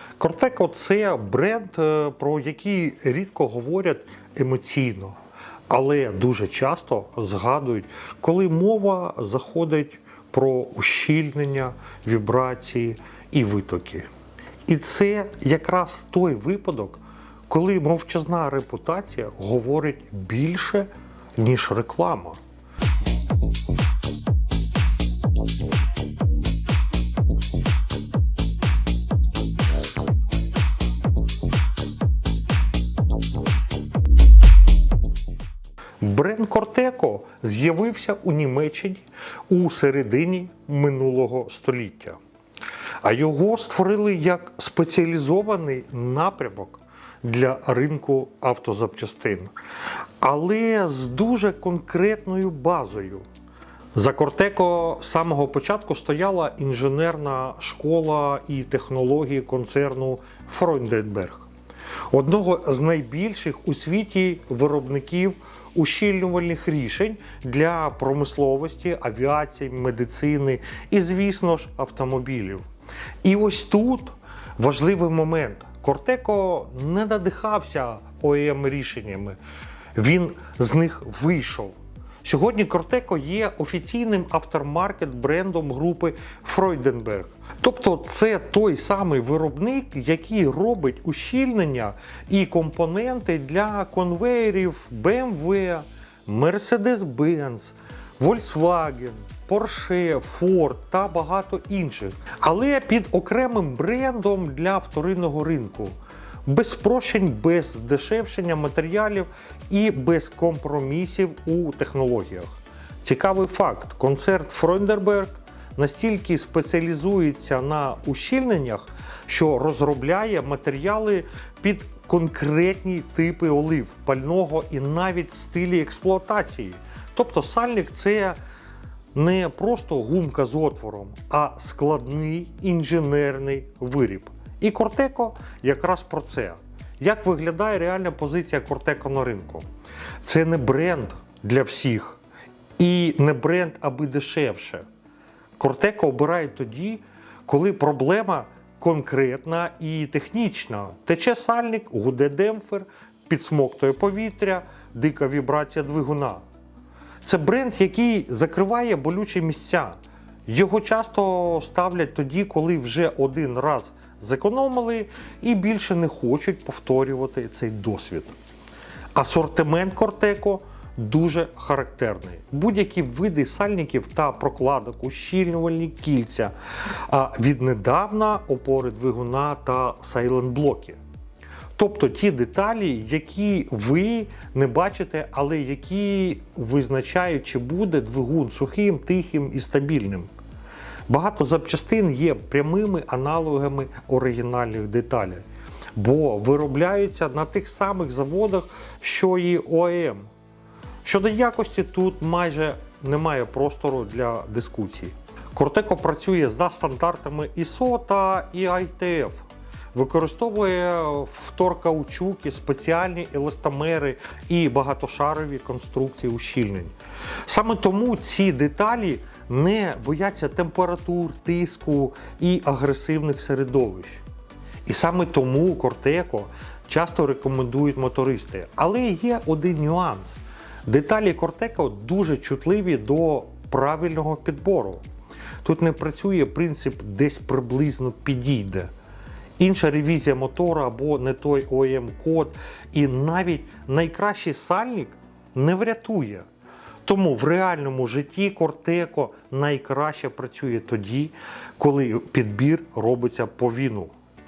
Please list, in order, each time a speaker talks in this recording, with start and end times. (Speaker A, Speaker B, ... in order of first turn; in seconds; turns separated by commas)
Speaker A: 0.2-5.2, Speaker A: 5.7-14.1, Speaker A: 14.7-22.4, Speaker A: 36.0-42.2, Speaker A: 43.0-49.5, Speaker A: 50.2-53.2, Speaker A: 54.0-61.5, Speaker A: 62.1-72.7, Speaker A: 73.2-79.4, Speaker A: 80.0-105.9, Speaker A: 106.5-128.4, Speaker A: 129.1-139.7, Speaker A: 140.2-142.2, Speaker A: 142.8-144.8, Speaker A: 145.6-156.4, Speaker A: 157.2-168.3, Speaker A: 169.2-181.0, Speaker A: 181.8-190.3, Speaker A: 191.1-195.4, Speaker A: 195.9-200.3, Speaker A: 201.0-216.9, Speaker A: 217.4-224.2, Speaker A: 224.9-230.3, Speaker A: 230.9-235.0, Speaker A: 235.6-238.9, Speaker A: 239.6-246.5, Speaker A: 247.0-254.1